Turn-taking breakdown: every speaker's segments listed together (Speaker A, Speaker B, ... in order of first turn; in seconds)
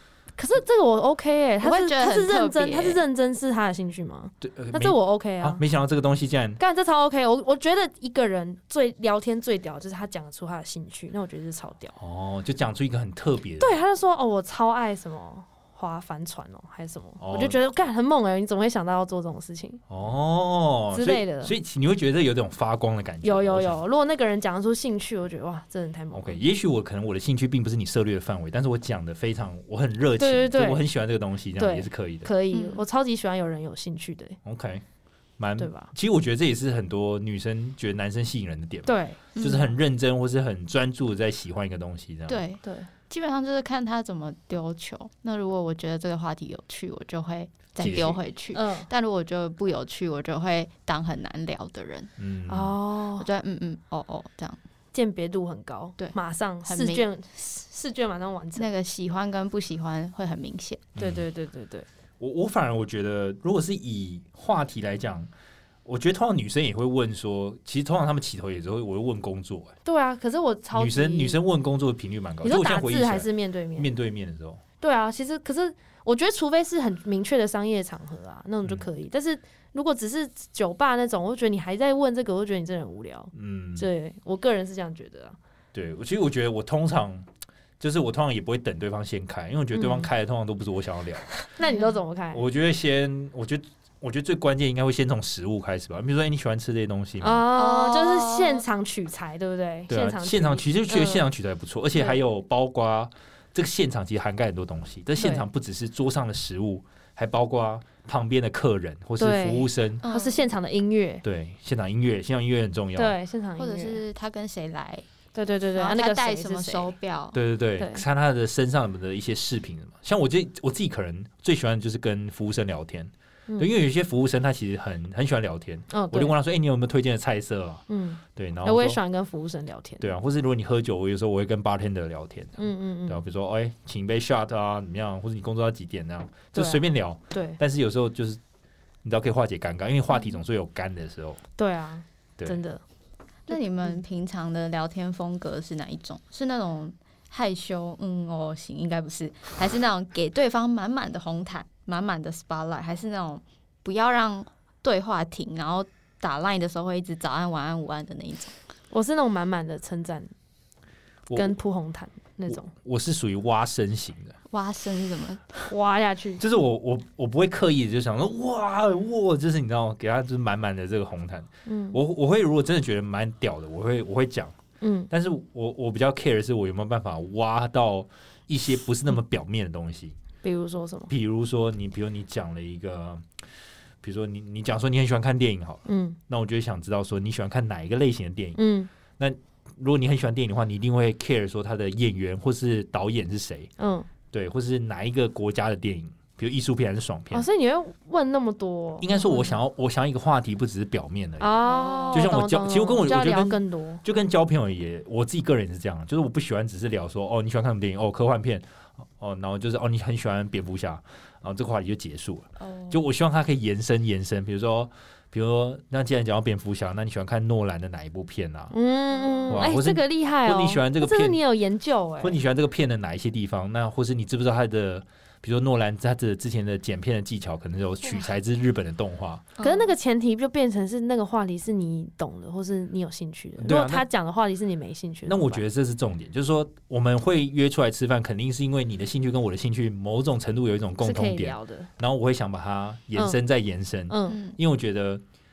Speaker A: 0.4-5.6, 6.6-11.9, 13.6-19.8, 20.9-21.5, 23.2-26.4, 30.2-30.8, 31.6-34.4, 35.6-35.9, 38.9-39.7, 42.6-42.9, 48.5-48.9, 52.5-53.3, 54.9-58.7, 61.0-61.9, 69.8-71.4, 72.4-73.9, 74.8-85.4, 89.7-90.1, 91.5-92.4, 97.2-101.3, 102.0-102.2, 105.2-105.5, 109.2-111.2, 113.0-114.0, 115.3-116.9, 117.8-118.0, 125.9-126.3, 127.9-130.1, 132.6-133.2, 136.5-137.6, 141.6-142.8, 143.5-144.0, 158.9-160.3, 161.3-162.7, 165.7-166.4, 171.7-172.0, 174.8-175.1, 180.4-181.1, 185.9-186.2, 188.6-188.9, 193.8-194.1, 197.3-199.6, 201.4-204.0, 218.7-222.4, 229.6-235.6, 241.0-241.9, 244.1-244.4
Speaker B: 1.6-3.0, 32.5-32.8, 39.4-39.6, 42.3-52.1, 53.2-54.6, 56.0-57.0, 58.5-60.9, 97.5-98.6, 110.0-110.4, 113.6-115.0, 115.8-117.4, 143.5-158.5, 164.5-165.4, 201.6-202.3, 212.6-213.0, 219.1-219.7, 229.6-229.9, 244.3-244.6
Speaker C: 4.4-6.6, 12.0-13.8, 17.2-17.6, 19.9-23.8, 26.1-32.3, 34.4-34.8, 35.4-42.4, 47.8-48.2, 52.2-52.8, 61.0-61.2, 62.2-65.3, 65.8-69.8, 70.7-74.6, 83.3-83.9, 85.7-87.3, 87.8-91.3, 92.3-97.5, 99.9-110.0, 111.2-113.2, 117.3-127.8, 128.4-129.0, 130.0-138.4, 139.0-141.4, 161.3-161.5, 162.5-164.3, 166.4-174.6, 175.1-180.2, 181.1-183.3, 184.0-188.6, 189.2-193.7, 194.3-197.5, 199.0-201.5, 202.1-208.7, 209.2-218.7, 219.5-221.4, 222.2-229.5, 233.6-234.1, 235.3-245.2